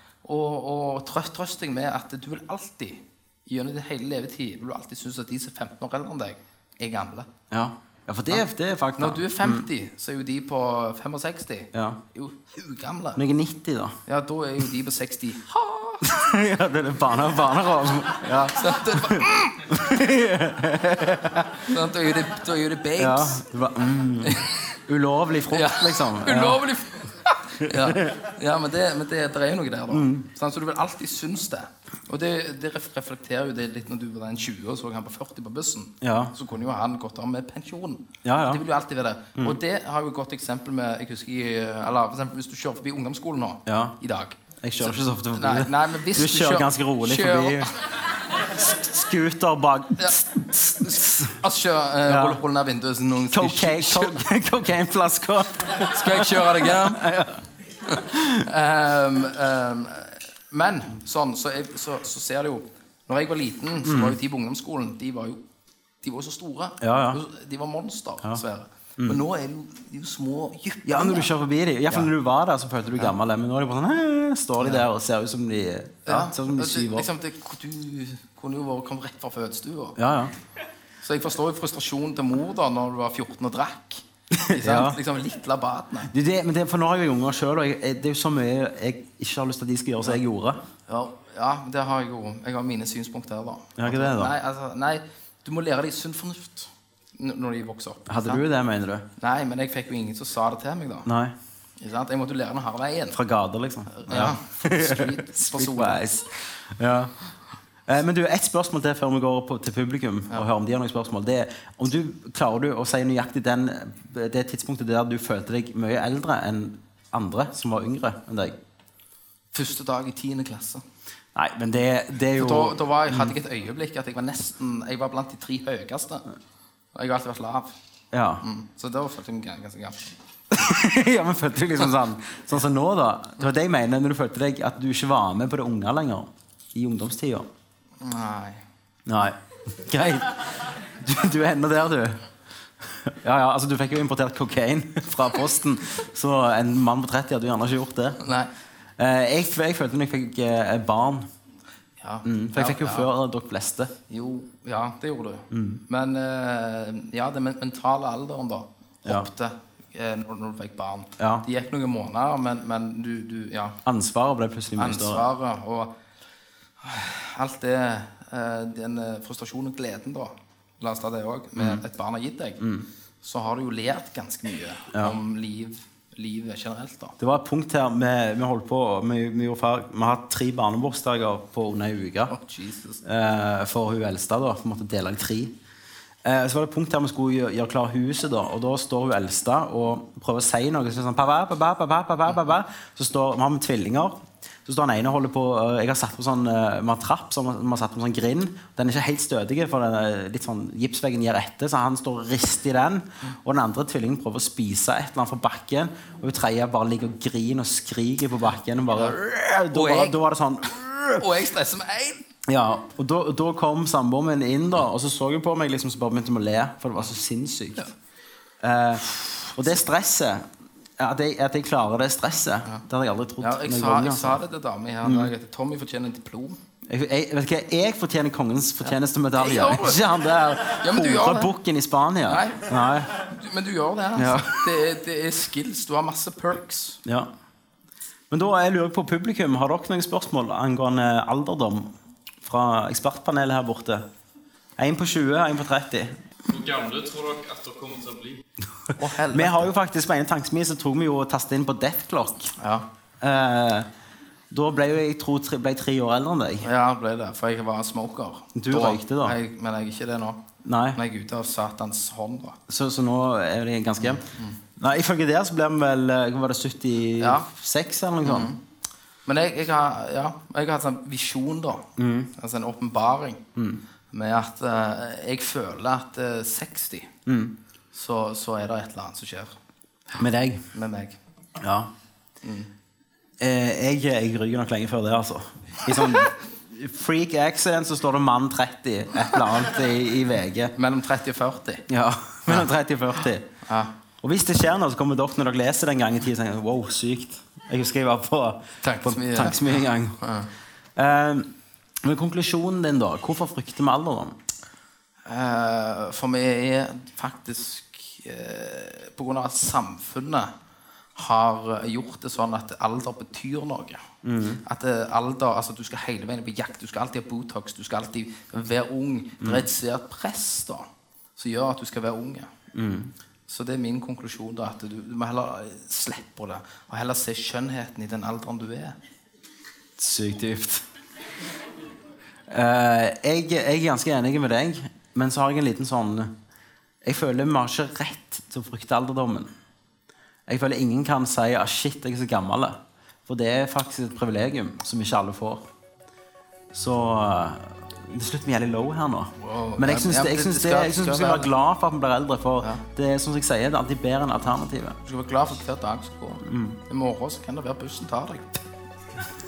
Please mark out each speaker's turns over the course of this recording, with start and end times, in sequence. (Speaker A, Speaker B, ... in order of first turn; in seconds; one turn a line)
Speaker A: 0.2-7.3
Speaker B: 7.5-9.7
Speaker A: 9.0-13.2
Speaker B: 11.7-12.0
Speaker B: 13.2-14.0
Speaker A: 14.1-16.1
Speaker B: 16.0-21.7
Speaker A: 18.6-19.8
Speaker A: 21.6-23.4
Speaker B: 23.0-26.6
Speaker A: 24.2-24.6
Speaker A: 25.5-47.8
Speaker B: 27.6-28.2
Speaker B: 29.9-30.3
Speaker B: 36.0-36.3
Speaker B: 38.2-38.6
Speaker B: 43.7-44.0
Speaker B: 44.6-47.7
Speaker B: 48.3-51.4
Speaker A: 51.4-54.2
Speaker B: 52.0-52.4
Speaker B: 53.3-58.5
Speaker A: 55.8-57.0
Speaker A: 57.9-65.4
Speaker B: 63.8-64.2
Speaker A: 66.0-71.3
Speaker B: 66.8-67.2
Speaker B: 70.8-77.1
Speaker A: 74.6-74.9
Speaker A: 76.1-80.0
Speaker B: 80.0-80.3
Speaker A: 81.0-86.1
Speaker B: 84.3-85.0
Speaker B: 86.1-90.6
Speaker A: 90.9-98.4
Speaker B: 93.8-94.3
Speaker B: 98.1-99.1
Speaker A: 99.2-101.1
Speaker B: 101.0-101.3
Speaker A: 101.8-103.2
Speaker B: 103.1-107.1
Speaker A: 103.9-106.0
Speaker B: 107.9-118.6
Speaker A: 119.5-120.8
Speaker B: 121.3-123.3
Speaker A: 122.4-126.2
Speaker A: 126.9-127.7
Speaker B: 128.1-128.4
Speaker A: 128.4-130.1
Speaker B: 130.5-137.5
Speaker A: 138.0-138.6
Speaker B: 139.1-142.2
Speaker B: 142.8-148.2
Speaker A: 148.2-148.5
Speaker B: 149.0-151.3
Speaker A: 152.0-153.1
Speaker B: 152.2-153.9
Speaker A: 154.1-163.8
Speaker B: 155.5-155.8
Speaker B: 161.2-161.5
Speaker B: 163.8-165.3
Speaker A: 164.8-165.9
Speaker A: 166.8-172.7
Speaker B: 171.6-171.8
Speaker B: 172.6-172.9
Speaker A: 173.2-177.2
Speaker B: 177.2-182.3
Speaker A: 182.3-183.0
Speaker B: 183.0-185.5
Speaker B: 186.2-211.2
Speaker A: 209.7-210.2
Speaker A: 211.1-212.2
Speaker B: 212.5-217.9
Speaker B: 218.6-224.4
Speaker A: 223.4-226.6
Speaker B: 225.0-225.3
Speaker B: 226.8-233.3
Speaker A: 228.8-230.0
Speaker A: 230.8-231.5
Speaker A: 232.3-232.7
Speaker A: 233.2-237.0
Speaker B: 234.2-234.7
Speaker B: 237.1-237.3
Speaker B: 238.3-241.9
Speaker B: 242.4-244.1
Speaker B: 244.8-246.2
Speaker C: 246.5-248.4
Speaker A: 248.9-249.7
Speaker B: 249.3-252.5
Speaker A: 252.6-252.8
Speaker B: 253.2-253.9
Speaker B: 254.5-256.7
Speaker A: 256.6-260.4
Speaker B: 258.6-259.4
Speaker B: 260.6-261.0
Speaker A: 260.9-262.6
Speaker B: 262.7-264.2
Speaker A: 264.0-264.6
Speaker B: 264.8-268.5
Speaker A: 267.2-267.5
Speaker A: 268.2-268.6
Speaker A: 269.3-273.4
Speaker B: 272.0-272.3
Speaker B: 273.6-273.8
Speaker A: 274.1-277.1
Speaker B: 277.3-277.5
Speaker A: 277.9-279.6
Speaker B: 280.2-280.6
Speaker A: 280.7-281.2
Speaker B: 281.6-281.9
Speaker A: 282.4-282.7
Speaker B: 283.4-290.7
Speaker A: 290.8-291.9
Speaker B: 291.9-293.5
Speaker A: 293.7-293.9
Speaker B: 294.2-300.2
Speaker A: 298.8-300.5
Speaker B: 301.0-301.5
Speaker B: 302.0-304.4
Speaker A: 305.3-310.5
Speaker A: 311.2-314.1
Speaker B: 314.2-314.6
Speaker A: 314.6-322.5
Speaker B: 322.7-323.1
Speaker A: 323.5-329.0
Speaker B: 330.0-330.9
Speaker B: 332.5-336.3
Speaker B: 337.0-339.5
Speaker B: 340.5-345.6
Speaker B: 346.7-355.0
Speaker A: 349.4-351.5
Speaker A: 355.1-358.6
Speaker B: 356.4-356.8